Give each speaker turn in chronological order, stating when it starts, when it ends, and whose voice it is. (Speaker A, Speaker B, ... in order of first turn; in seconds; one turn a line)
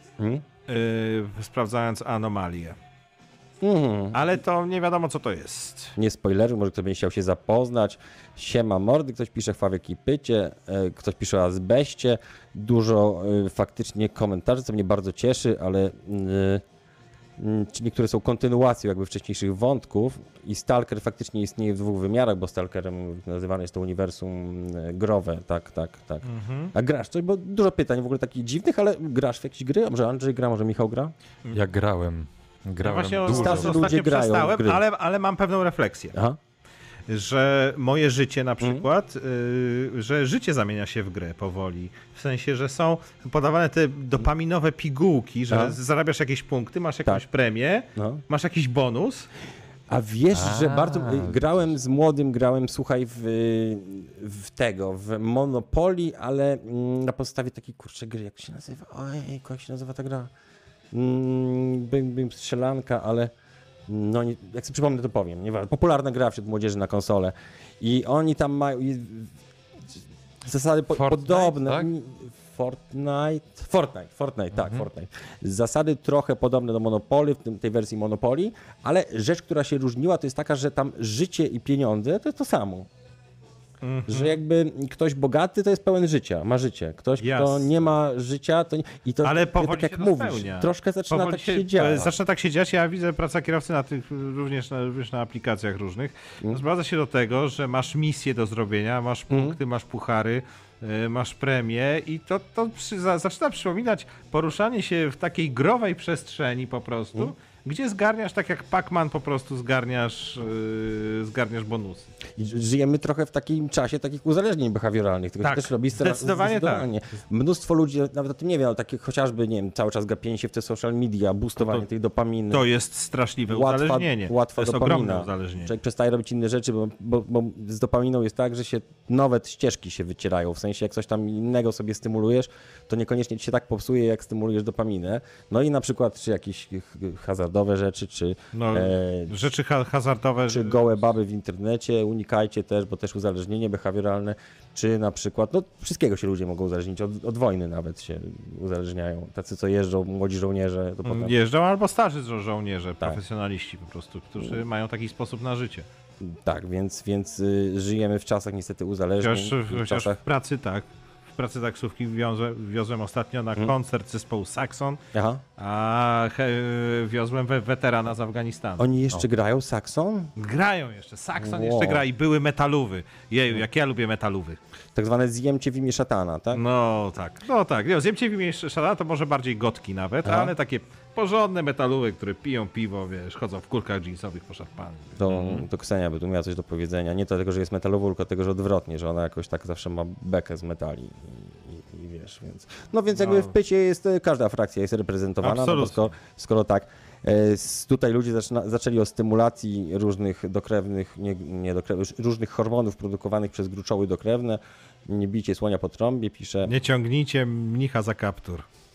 Speaker A: 0.2-0.5
Speaker B: 0.7-2.8
Speaker A: 3.6-4.2
Speaker B: 4.1-6.0
Speaker A: 6.0-16.6
Speaker A: 17.4-31.1
Speaker B: 26.2-26.7
Speaker C: 31.5-34.0
Speaker B: 32.8-36.1
Speaker A: 33.3-34.8
Speaker B: 37.1-49.3
Speaker A: 38.6-38.9
Speaker A: 45.5-45.8
Speaker A: 48.0-48.2
Speaker A: 49.9-60.3
Speaker C: 50.3-51.7
Speaker A: 60.9-63.3
Speaker A: 63.9-69.3
Speaker A: 70.5-82.9
Speaker C: 70.9-71.9
Speaker C: 74.6-74.8
Speaker B: 83.8-84.4
Speaker A: 84.1-92.2
Speaker B: 87.2-87.7
Speaker B: 89.2-112.1
Speaker A: 99.3-99.6
Speaker A: 112.4-122.7
Speaker B: 115.4-116.9
Speaker B: 121.6-121.8
Speaker B: 122.5-125.7
Speaker A: 123.5-139.4
Speaker B: 138.5-141.0
Speaker A: 140.5-151.4
Speaker B: 151.1-155.9
Speaker A: 156.2-160.2
Speaker B: 159.2-165.0
Speaker A: 165.1-165.4
Speaker B: 165.6-168.9
Speaker A: 168.8-170.3
Speaker B: 170.4-174.6
Speaker A: 171.4-172.0
Speaker A: 174.9-176.6
Speaker B: 176.5-185.7
Speaker A: 180.2-180.6
Speaker A: 185.2-206.8
Speaker B: 193.2-193.5
Speaker B: 195.4-196.1
Speaker B: 206.7-208.7